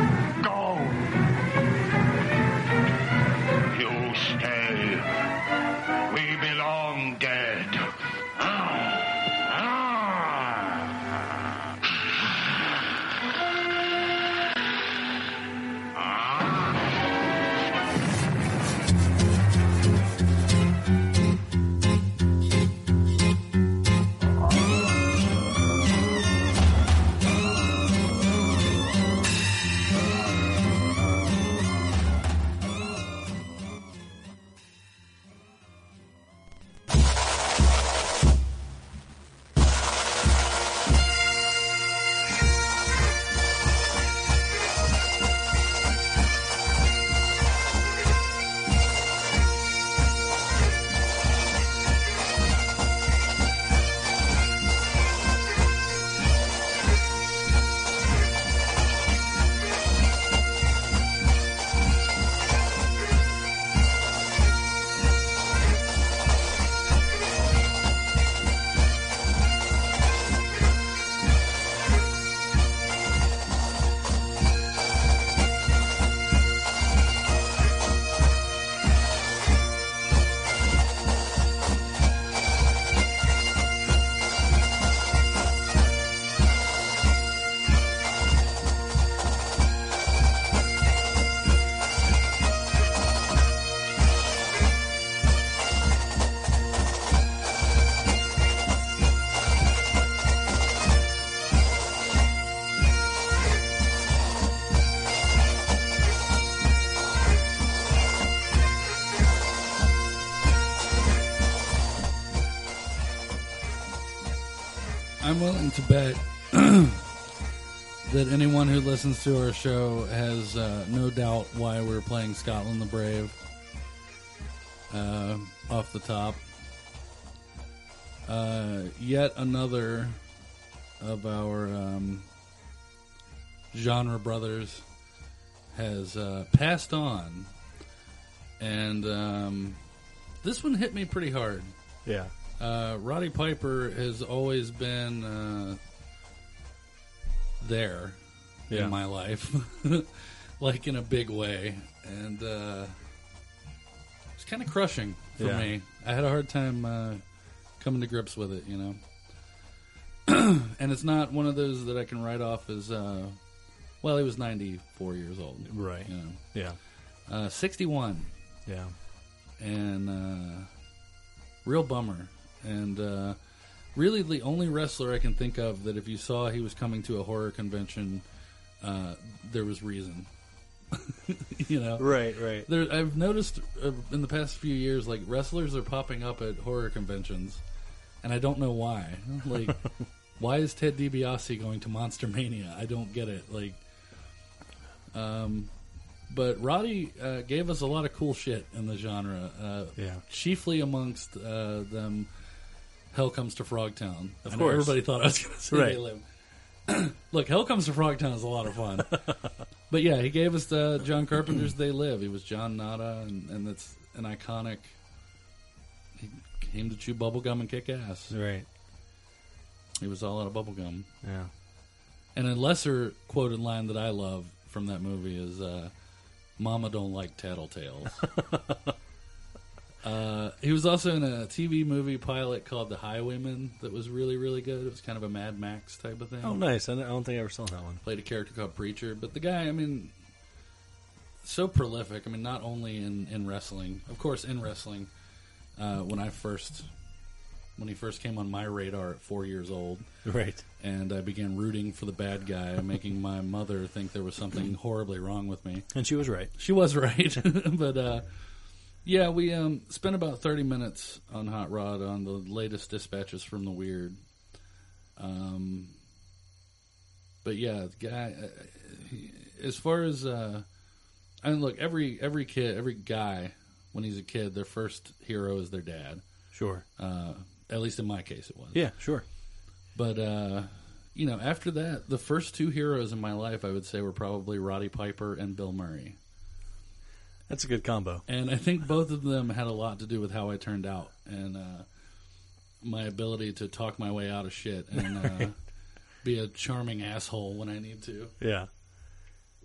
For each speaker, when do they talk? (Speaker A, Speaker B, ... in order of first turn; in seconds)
Speaker A: 0.4-1.1, 3.7-5.1, 6.1-10.5, 15.9-16.7
Speaker B: 115.2-117.1, 118.0-123.3, 124.9-126.4, 128.3-130.2, 131.0-132.3, 133.7-134.8, 135.7-137.5, 138.6-139.8, 140.4-141.7, 142.6-145.8, 147.6-148.2, 148.7-152.9, 154.3-157.2, 157.8-159.0, 160.3-163.4, 164.0-166.4, 167.3-168.3, 169.6-170.7, 171.6-173.4, 173.9-178.2, 178.8-180.3, 180.9-187.6, 188.2-189.8, 190.4-193.8, 195.1-195.7, 196.3-202.3, 203.1-206.2, 206.9-209.2, 209.9-214.9, 216.2-218.3, 220.0-221.1, 222.3-225.9, 226.6-228.3, 230.0-236.6, 238.0-240.1, 241.4-245.1, 245.8-246.9, 247.8-250.1, 250.8-255.9, 256.5-258.2, 259.0-264.2, 265.2-265.9, 267.4-270.6, 271.4-276.2, 277.0-278.9, 279.9-286.2, 288.3-291.9, 292.8-295.6, 296.2-298.3
Speaker C: 142.0-142.3, 148.7-148.9, 155.4-155.7, 165.7-166.8, 168.7-168.9, 182.0-182.7, 200.0-200.2, 204.4-205.0, 205.7-206.0, 218.3-218.7, 221.2-221.5, 228.3-228.9, 236.4-238.0, 250.2-250.6, 255.9-256.5, 276.5-276.8, 278.7-279.2, 287.5-288.2, 295.0-295.4, 298.4-298.7